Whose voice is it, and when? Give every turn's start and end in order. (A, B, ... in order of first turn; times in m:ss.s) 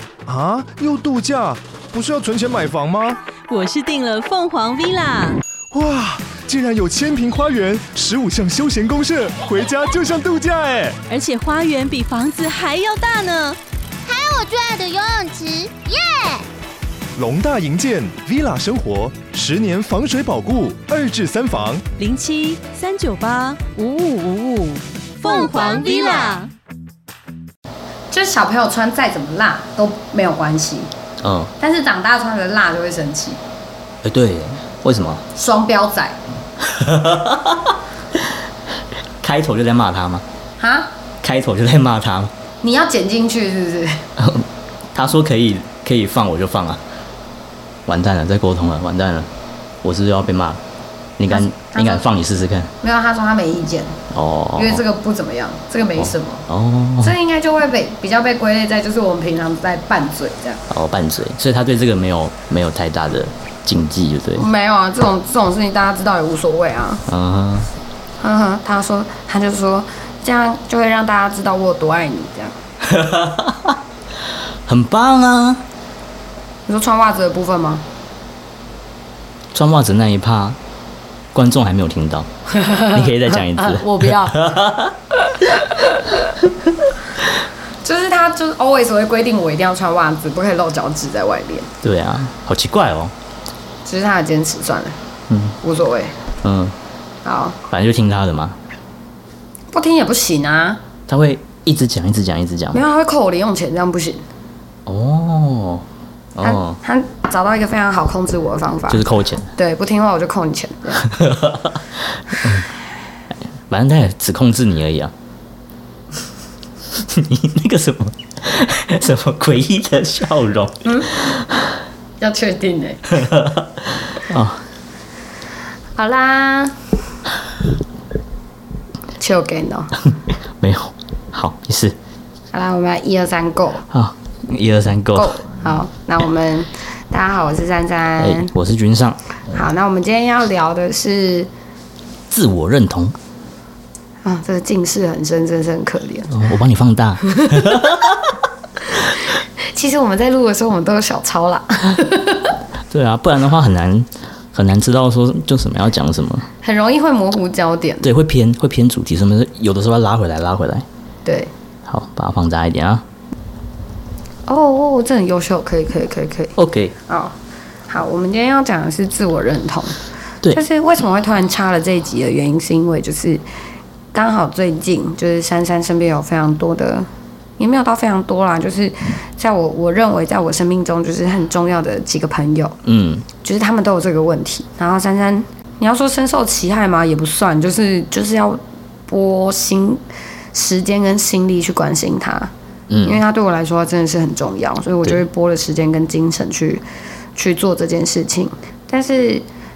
0:00.2-0:03.2 A
0:03.5-0:05.4 B
0:05.7-0:11.0 A
0:11.1-0:13.6 B
0:14.0-0:16.4 C
0:17.2-0:21.8 A
0:22.0-0:26.5 B
0:25.2-0:26.4 C
0:28.1-0:30.9 D
0:31.2-0:31.5 E
0:31.6-0:33.4 D
0:34.0-0:35.2 E
0:35.3-0:36.2 D
0:36.6-0:38.3 E
0:39.2-0:40.2 E
0:40.6-0:40.9 D
0:41.2-0:42.3 E
0:42.6-0:44.0 D
0:44.2-0:46.8 E
0:47.8-0:49.3 E
0:49.8-0:50.6 E
0:51.2-0:52.7 E
0:51.3-0:52.0 D
0:52.8-0:54.0 D
0:54.1-0:54.8 E
0:54.5-0:56.5 D
0:56.0-0:57.2 E
0:57.0-1:00.6 D
1:00.7-1:04.5 E
1:04.3-1:07.0 D
1:07.1-1:07.7 E
1:08.2-1:12.6 D
1:12.8-1:13.8 E
1:14.6-1:15.6 E
1:16.7-1:17.8 D
1:19.5-1:20.6 E
1:21.3-1:25.5 E
1:22.6-1:24.4 D
1:27.8-1:31.7 D
1:31.8-1:33.1 E
1:33.8-1:35.0 D
1:35.3-1:35.6 E
1:35.6-1:36.1 D
1:36.4-1:36.8 E
1:37.2-1:37.6 D
1:37.7-1:38.6 E
1:39.7-1:40.8 D
1:41.1-1:42.8 E
1:42.7-1:44.2 D
1:44.8-1:46.8 E
1:46.4-1:49.0 D
1:48.9-1:49.5 E
1:49.5-1:51.1 D
1:51.0-1:52.7 E
1:53.7-1:55.1 E
1:56.9-2:01.7 E
2:00.8-2:01.1 D
2:02.2-2:03.3 D
2:03.4-2:03.6 E
2:04.2-2:04.6 E
2:06.0-2:06.8 D
2:09.2-2:09.9 D
2:10.6-2:12.0 E
2:12.5-2:13.8 D
2:13.9-2:15.4 E
2:15.1-2:18.5 D
2:18.2-2:19.2 E
2:19.5-2:21.5 D
2:22.3-2:23.1 E
2:24.2-2:26.4 D
2:26.3-2:28.2 E
2:27.3-2:27.6 D
2:29.7-2:32.5 D
2:32.9-2:36.5 E
2:36.6-2:38.1 D
2:38.0-2:40.8 E
2:41.2-2:41.5 D
2:41.8-2:43.0 E
2:44.5-2:46.5 D
2:46.6-2:46.9 E
2:47.1-2:47.3 D
2:47.9-2:50.0 D
2:50.5-2:53.4 D
2:54.1-3:02.8 D
3:02.8-3:03.2 E
3:03.4-3:10.0 D
3:10.5-3:12.5 D
3:12.9-3:13.2 E
3:13.0-3:16.8 D
3:17.3-3:19.4 D